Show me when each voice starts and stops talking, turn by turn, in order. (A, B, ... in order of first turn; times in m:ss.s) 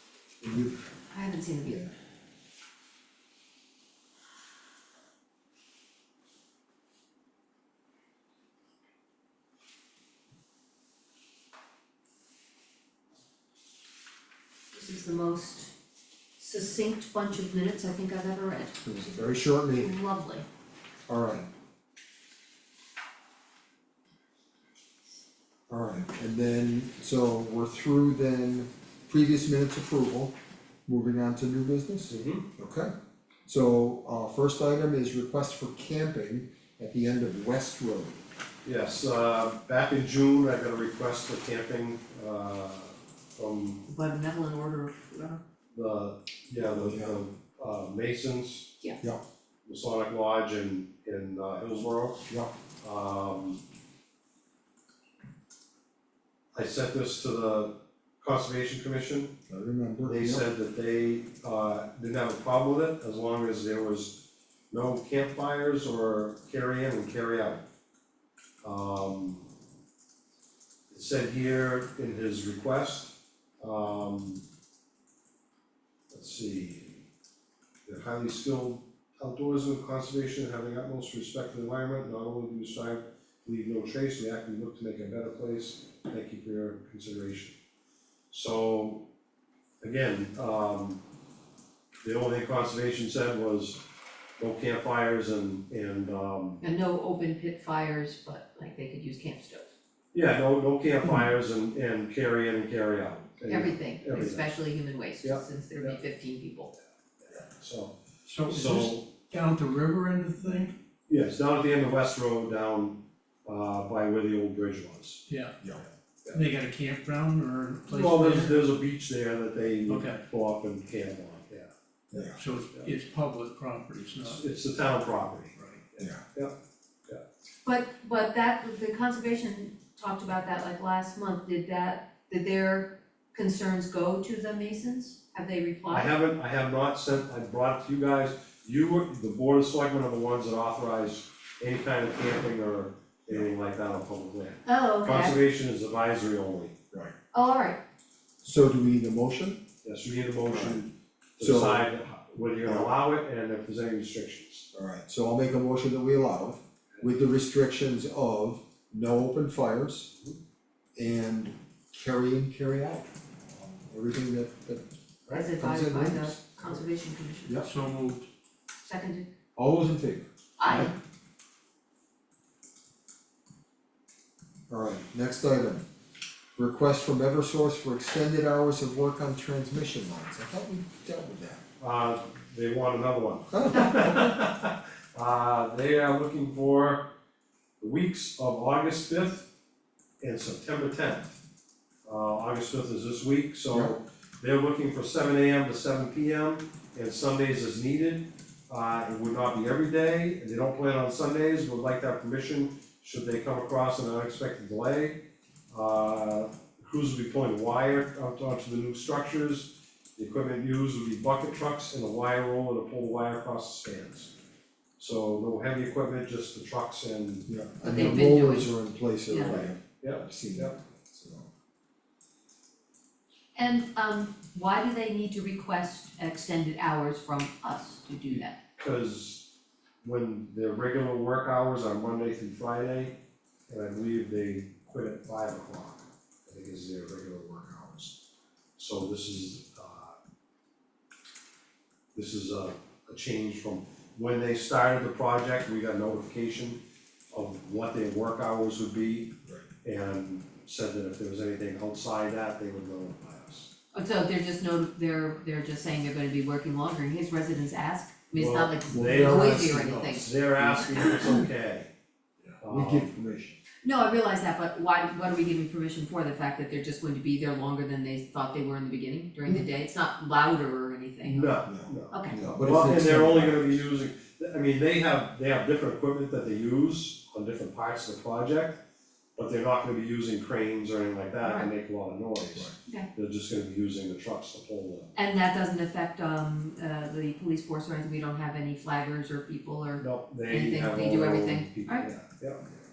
0:00.4-0:00.8 A
0:01.1-0:01.9 B
0:01.6-0:01.9 A
0:14.7-0:15.7 B
0:16.4-0:18.8 B
0:18.8-0:19.9 A
0:19.8-0:20.4 B
0:21.1-0:21.5 A
0:25.7-0:30.3 A
0:30.9-0:32.9 A
0:32.0-0:32.4 C
0:33.4-0:38.2 A
0:38.6-0:43.8 C
0:43.8-0:45.4 B
0:45.7-0:48.7 C
0:46.6-0:47.2 A
0:49.6-0:52.2 C
0:52.8-0:53.6 C
0:56.5-0:59.4 C
0:59.5-1:00.5 A
1:00.1-1:04.2 C
1:04.7-1:07.6 C
1:08.6-1:09.4 C
1:10.9-1:14.4 C
1:16.1-1:17.0 C
1:17.9-1:27.5 C
1:28.3-1:29.0 C
1:29.8-1:31.0 C
1:32.0-1:33.8 C
1:34.4-1:36.6 C
1:36.6-1:39.7 B
1:40.1-1:44.5 C
1:43.4-1:46.7 B
1:45.2-1:46.0 C
1:47.2-1:47.9 C
1:48.2-1:50.8 D
1:48.5-1:49.0 C
1:51.1-1:55.2 C
1:55.3-1:55.5 D
1:56.3-1:58.7 D
1:57.9-2:02.9 C
1:59.9-2:00.2 D
2:02.1-2:02.4 A
2:02.3-2:04.4 D
2:04.2-2:06.5 C
2:05.6-2:05.8 D
2:07.6-2:16.1 B
2:15.9-2:26.7 C
2:24.6-2:25.4 B
2:27.3-2:27.8 B
2:28.4-2:29.6 A
2:29.8-2:34.6 C
2:30.4-2:30.8 A
2:31.4-2:31.8 A
2:34.7-2:40.1 A
2:41.0-2:44.8 A
2:45.3-2:47.6 B
2:45.5-2:46.8 A
2:47.6-2:48.3 D
2:48.8-2:49.3 B
2:49.5-2:50.9 A
2:50.6-2:50.9 B
2:54.7-2:55.8 A
2:56.6-3:01.6 A
3:01.8-3:07.1 C
3:03.5-3:04.3 A
3:07.8-3:09.4 C
3:10.2-3:11.4 C
3:12.0-3:34.3 C
3:13.7-3:14.0 A
3:35.0-3:37.5 C
3:37.4-3:41.5 A
3:37.8-3:38.7 B
3:39.3-3:39.6 B
3:39.3-3:40.7 C
3:43.6-3:48.6 B
3:48.3-3:49.5 C
3:50.0-3:53.2 C
3:53.7-3:58.2 C
3:58.8-4:00.1 C
4:02.1-4:06.8 C
4:07.3-4:09.3 C
4:09.8-4:13.7 C
4:13.9-4:21.4 B
4:18.3-4:21.9 C
4:18.9-4:19.8 A
4:22.4-4:23.6 A
4:22.6-4:23.2 C
4:23.8-4:31.6 B
4:31.2-4:38.8 C
4:31.6-4:33.8 A
4:32.1-4:32.4 B
4:39.4-4:45.1 C
4:41.4-4:41.7 B
4:45.1-4:52.1 B
4:50.0-4:52.6 C